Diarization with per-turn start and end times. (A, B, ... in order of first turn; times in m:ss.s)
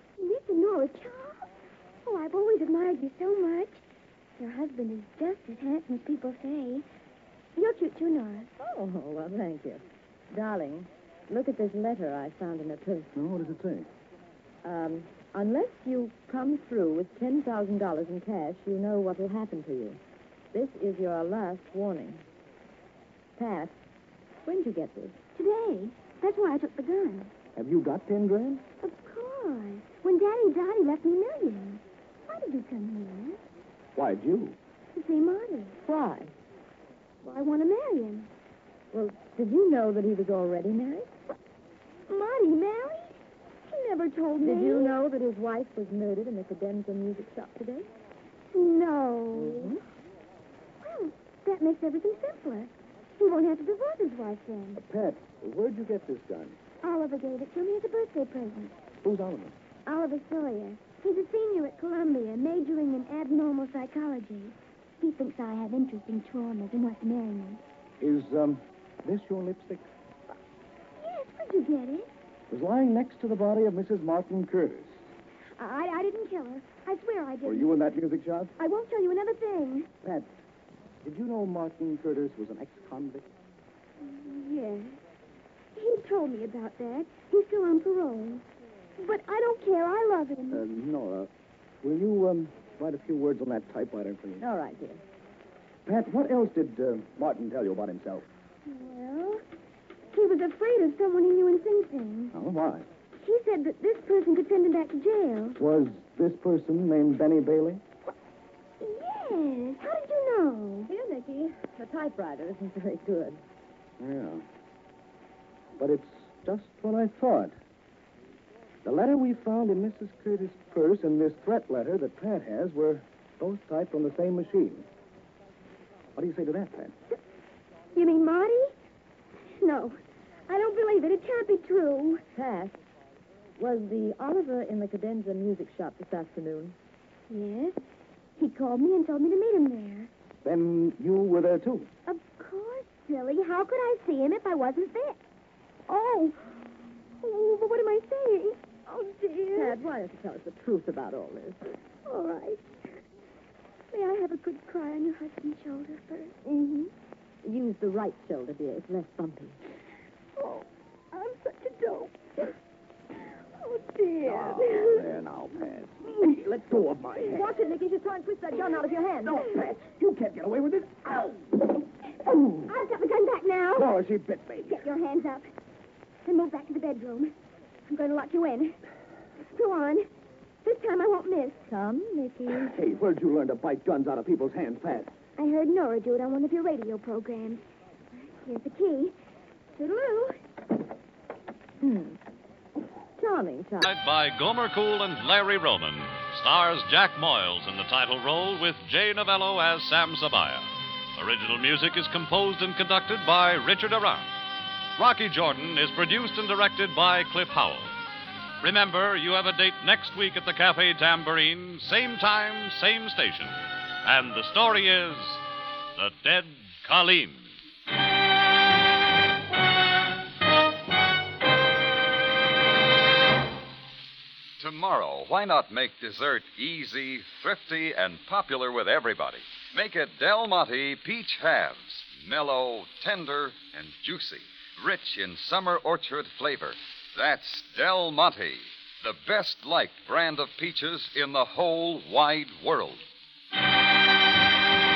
0:00.2-0:01.5 A
0:02.0-0:03.8 A
0:04.4-0:06.8 A
0:07.6-0:08.5 A
0:08.6-0:09.8 B
0:10.3-0:13.1 B
0:13.2-0:13.9 C
0:14.6-0:20.0 B
0:20.5-0:22.2 B
0:23.4-0:23.8 B
0:24.5-0:25.2 B
0:25.4-0:27.3 A
0:27.6-0:28.6 C
0:28.8-0:33.4 A
0:34.0-0:34.6 C
0:34.9-0:35.8 A
0:35.8-0:36.3 B
0:37.2-0:38.3 A
0:38.9-0:41.1 B
0:42.1-0:45.0 A
0:44.4-0:47.9 B
0:48.5-0:49.8 A
0:49.4-0:49.7 B
0:50.8-0:54.8 A
0:54.8-0:56.6 C
0:56.8-0:58.7 A
0:59.0-0:59.5 C
0:59.9-1:07.6 A
1:08.0-1:09.9 C
1:11.0-1:12.1 A
1:12.5-1:15.0 C
1:15.6-1:17.8 A
1:17.4-1:18.5 C
1:18.6-1:19.9 A
1:20.0-1:20.3 C
1:21.0-1:23.3 C
1:24.0-1:25.0 A
1:25.8-1:28.4 A
1:29.0-1:30.6 A
1:30.5-1:31.3 C
1:31.8-1:34.4 C
1:34.4-1:35.0 B
1:35.9-1:38.3 C
1:38.7-1:39.4 A
1:40.1-1:42.3 A
1:42.3-1:42.9 C
1:43.2-1:45.6 A
1:45.5-1:47.8 C
1:48.8-1:50.9 A
1:50.9-1:53.4 B
1:54.0-1:54.4 C
1:55.8-1:57.5 C
1:58.8-2:04.9 C
2:06.2-2:06.9 C
2:08.0-2:08.7 A
2:09.6-2:10.0 A
2:10.5-2:12.2 A
2:12.4-2:12.8 B
2:13.6-2:16.8 B
2:17.3-2:17.8 A
2:18.4-2:20.1 A
2:20.4-2:21.9 C
2:22.1-2:25.2 A
2:25.9-2:26.6 A
2:27.2-2:29.8 A
2:29.6-2:31.6 B
2:32.0-2:32.7 A
2:33.9-2:36.9 A
2:37.4-2:39.6 B
2:40.4-2:42.2 A
2:43.6-2:45.2 A
2:44.2-2:47.6 C
2:47.3-2:49.4 B
2:49.2-2:51.6 C
2:52.2-2:52.8 C
2:52.6-2:54.0 A
2:53.8-2:54.9 C
2:54.7-2:55.5 A
2:56.2-2:57.3 A
2:57.9-2:58.8 A
2:59.4-3:00.1 A
3:00.6-3:01.6 A
3:01.7-3:02.7 B
3:02.5-3:05.1 C
3:05.4-3:07.6 A
3:08.3-3:09.2 A
3:09.8-3:10.4 A
3:11.8-3:12.2 B
3:13.2-3:13.9 B
3:13.8-3:24.3 D
3:25.0-3:27.9 D
3:28.6-3:35.4 D
3:36.0-3:37.5 D
3:44.6-4:03.0 E